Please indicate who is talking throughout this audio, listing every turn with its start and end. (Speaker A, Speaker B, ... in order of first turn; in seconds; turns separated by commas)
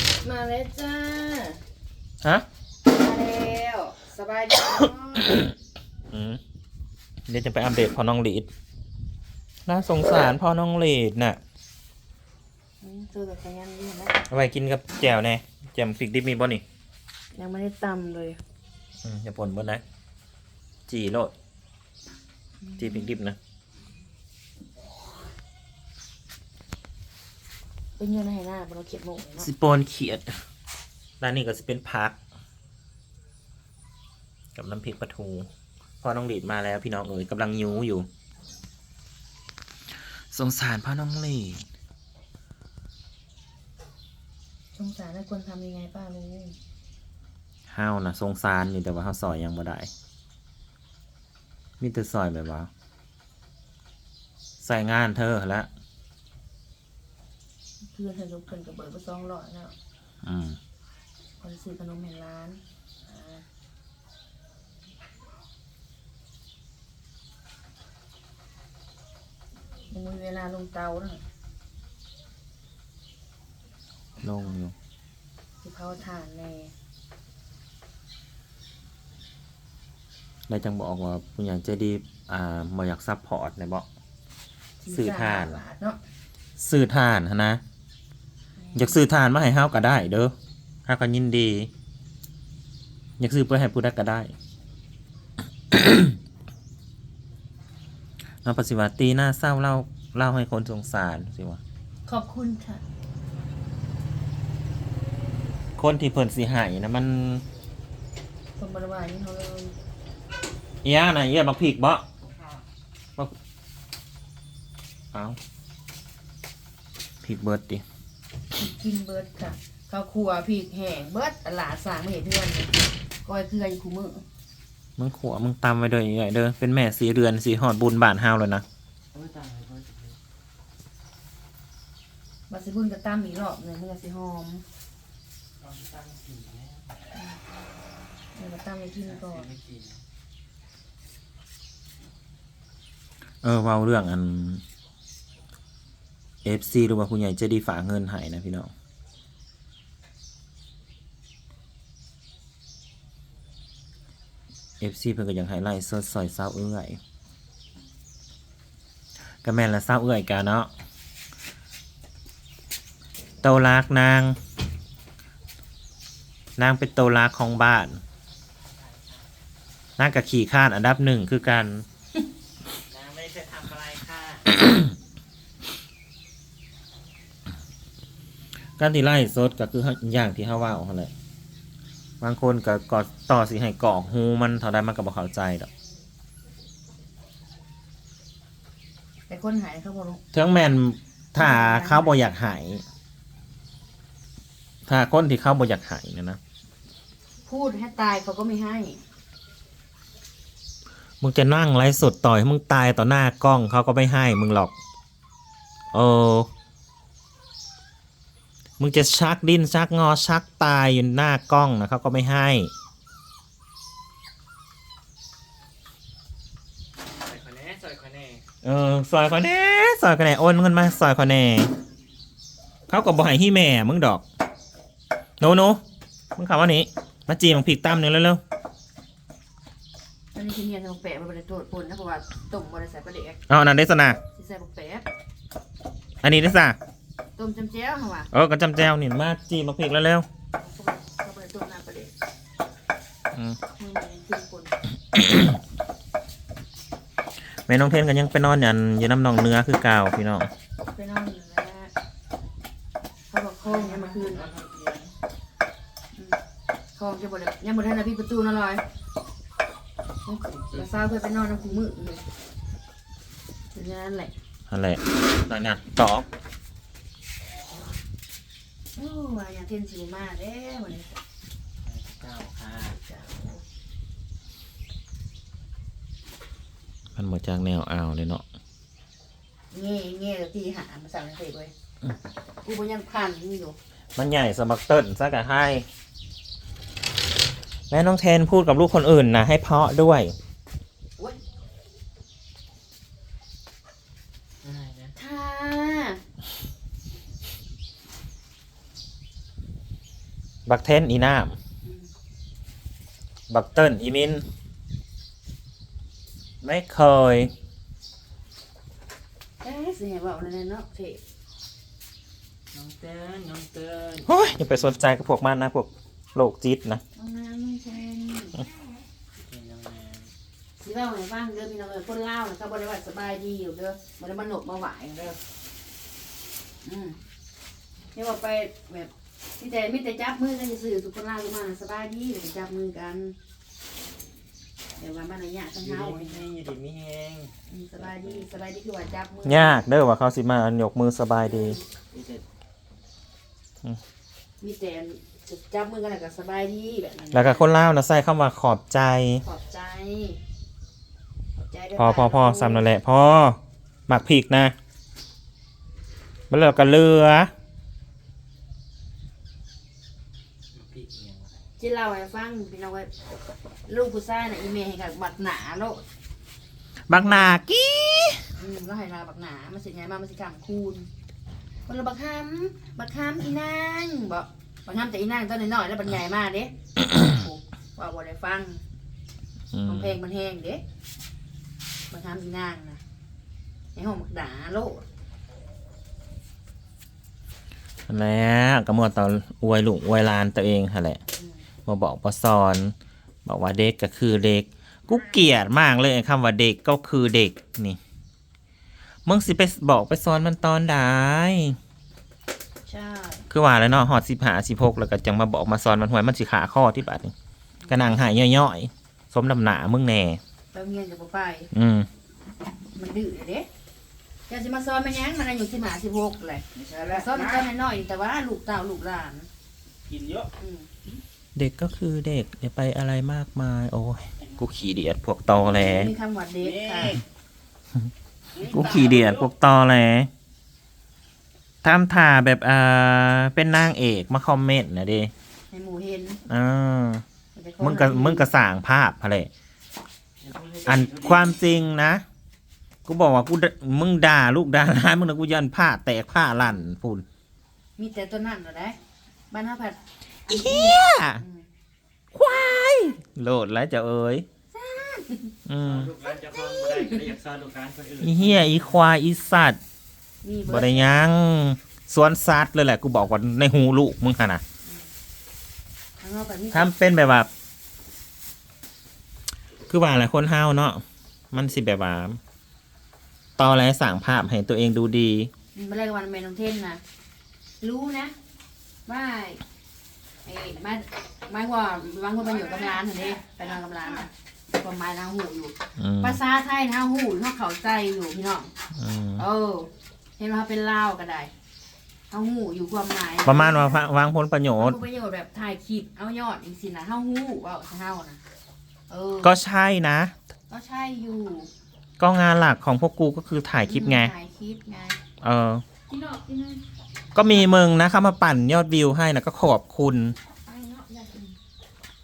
Speaker A: 0.2-1.6, Speaker A: 2.9-5.4, Speaker B: 6.1-6.4, Speaker B: 7.3-8.5, Speaker B: 9.7-11.4, Speaker A: 12.8-14.2, Speaker B: 14.3-16.6, Speaker A: 17.4-18.4, Speaker B: 19.0-19.8, Speaker B: 20.9-21.3, Speaker A: 22.6-23.2, Speaker B: 22.8-23.4, Speaker A: 28.0-29.5, Speaker B: 29.4-30.4, Speaker B: 31.2-32.2, Speaker B: 34.5-35.5, Speaker B: 36.0-38.1, Speaker B: 40.3-41.6, Speaker A: 44.8-46.6, Speaker B: 47.7-49.9, Speaker B: 51.8-52.7, Speaker B: 54.6-55.7, Speaker A: 57.9-59.8, Speaker B: 60.2-60.6, Speaker A: 61.4-63.5, Speaker A: 69.9-71.2, Speaker B: 74.2-74.7, Speaker A: 75.6-76.7, Speaker B: 80.5-83.9, Speaker A: 84.8-86.0, Speaker B: 84.9-85.6, Speaker B: 86.6-87.6, Speaker A: 88.6-89.0, Speaker B: 88.8-90.3, Speaker B: 90.9-91.7, Speaker B: 93.2-94.3, Speaker B: 95.7-96.2, Speaker B: 98.5-101.6, Speaker A: 102.1-102.8, Speaker B: 105.8-107.4, Speaker A: 108.6-109.7, Speaker B: 110.8-112.0, Speaker B: 117.2-117.8, Speaker A: 118.6-124.2, Speaker B: 125.0-128.7, Speaker C: 129.1-130.2, Speaker A: 132.5-134.6, Speaker C: 135.6-137.0, Speaker A: 137.1-137.4, Speaker A: 138.3-139.5, Speaker C: 138.9-140.0, Speaker B: 143.4-144.6, Speaker B: 146.4-148.7, Speaker B: 154.8-157.0, Speaker B: 159.4-160.7, Speaker B: 163.4-164.4, Speaker B: 166.6-168.0, Speaker C: 168.7-169.3, Speaker B: 170.0-171.8, Speaker C: 172.9-174.5, Speaker B: 178.8-181.1, Speaker B: 182.2-185.7, Speaker A: 189.3-190.2, Speaker B: 190.3-192.8, Speaker A: 191.4-192.1, Speaker B: 194.9-196.4, Speaker A: 197.5-199.0, Speaker B: 201.2-204.7, Speaker B: 205.9-206.5, Speaker B: 208.8-212.7, Speaker C: 217.2-218.4, Speaker B: 218.6-221.7, Speaker B: 222.9-224.2, Speaker B: 225.4-225.8, Speaker B: 226.4-228.4, Speaker A: 230.3-233.4, Speaker B: 233.5-234.2, Speaker A: 234.3-235.1, Speaker B: 236.2-236.8, Speaker A: 237.4-238.3, Speaker B: 238.3-240.3, Speaker A: 240.6-242.1, Speaker A: 243.7-244.8, Speaker B: 245.2-245.5, Speaker B: 247.7-250.5, Speaker A: 250.9-251.9, Speaker A: 253.3-254.5, Speaker C: 253.6-255.1, Speaker A: 256.1-256.4, Speaker A: 257.0-258.8, Speaker A: 260.3-262.3, Speaker C: 260.6-260.9, Speaker A: 263.7-264.3, Speaker B: 264.7-266.3, Speaker A: 268.9-271.2, Speaker C: 271.8-273.0, Speaker A: 272.9-273.6, Speaker B: 277.2-278.4, Speaker A: 279.7-281.7, Speaker A: 282.6-283.8, Speaker B: 284.2-285.9, Speaker B: 287.9-290.3, Speaker C: 294.6-295.2, Speaker A: 295.2-296.2, Speaker B: 300.7-301.6, Speaker A: 301.8-302.1, Speaker B: 303.5-304.4, Speaker B: 306.6-307.5, Speaker A: 309.6-311.2, Speaker C: 312.7-315.0, Speaker B: 314.2-317.0, Speaker A: 317.1-318.7, Speaker C: 319.4-320.3, Speaker A: 320.8-325.4, Speaker A: 326.8-327.2, Speaker A: 328.1-333.4, Speaker A: 335.0-336.4, Speaker C: 335.8-338.6, Speaker A: 337.7-339.8, Speaker B: 339.4-341.8, Speaker A: 341.4-341.8, Speaker C: 342.1-342.4, Speaker A: 344.6-347.7, Speaker B: 347.3-349.4, Speaker A: 349.4-350.4, Speaker A: 351.6-352.9, Speaker B: 352.0-354.8, Speaker B: 356.5-357.5, Speaker C: 360.7-361.6, Speaker A: 361.8-363.1, Speaker A: 363.9-366.0, Speaker B: 367.1-368.4, Speaker A: 367.1-367.6, Speaker A: 368.6-371.1, Speaker A: 371.9-378.8, Speaker B: 379.7-380.2, Speaker A: 379.8-380.8, Speaker A: 382.1-383.0, Speaker A: 383.9-385.1, Speaker B: 388.1-391.2, Speaker A: 391.4-391.6, Speaker B: 391.9-392.9, Speaker B: 393.4-398.0, Speaker B: 399.3-401.8, Speaker A: 402.9-403.5, Speaker B: 403.5-407.3, Speaker A: 407.9-408.1, Speaker B: 407.9-410.4, Speaker A: 410.7-411.7, Speaker B: 411.7-412.1, Speaker A: 412.9-413.7, Speaker A: 414.5-419.5, Speaker C: 416.8-417.6, Speaker C: 420.1-420.5, Speaker A: 420.5-421.0, Speaker B: 421.6-426.1, Speaker A: 425.6-427.2, Speaker C: 426.6-427.2, Speaker A: 428.6-429.1, Speaker B: 428.6-430.3, Speaker B: 431.8-435.3, Speaker A: 435.7-436.4, Speaker B: 436.5-437.2, Speaker A: 437.6-438.5, Speaker B: 437.8-439.5, Speaker C: 440.4-441.6, Speaker B: 440.9-442.2, Speaker B: 443.1-447.2, Speaker A: 448.0-449.0, Speaker A: 449.5-451.7, Speaker B: 450.5-451.4, Speaker B: 452.3-454.5, Speaker A: 454.7-455.6, Speaker B: 455.7-456.1, Speaker C: 455.8-459.0, Speaker B: 458.2-459.8, Speaker A: 460.4-461.1, Speaker B: 460.7-464.6, Speaker A: 466.2-466.9, Speaker B: 466.7-467.5, Speaker B: 469.9-472.4, Speaker B: 473.6-475.5, Speaker A: 475.8-477.0, Speaker A: 477.8-478.4, Speaker A: 479.1-479.6, Speaker A: 480.4-488.7, Speaker B: 486.0-486.4, Speaker B: 489.0-489.4, Speaker A: 489.4-491.5, Speaker A: 492.3-494.0, Speaker B: 493.4-495.0, Speaker A: 494.7-498.4, Speaker A: 499.1-499.6, Speaker B: 499.4-500.3, Speaker A: 500.7-501.7, Speaker B: 502.2-504.3, Speaker A: 503.8-505.2, Speaker B: 505.4-505.8, Speaker A: 506.1-506.8, Speaker B: 507.4-510.4, Speaker A: 510.7-511.5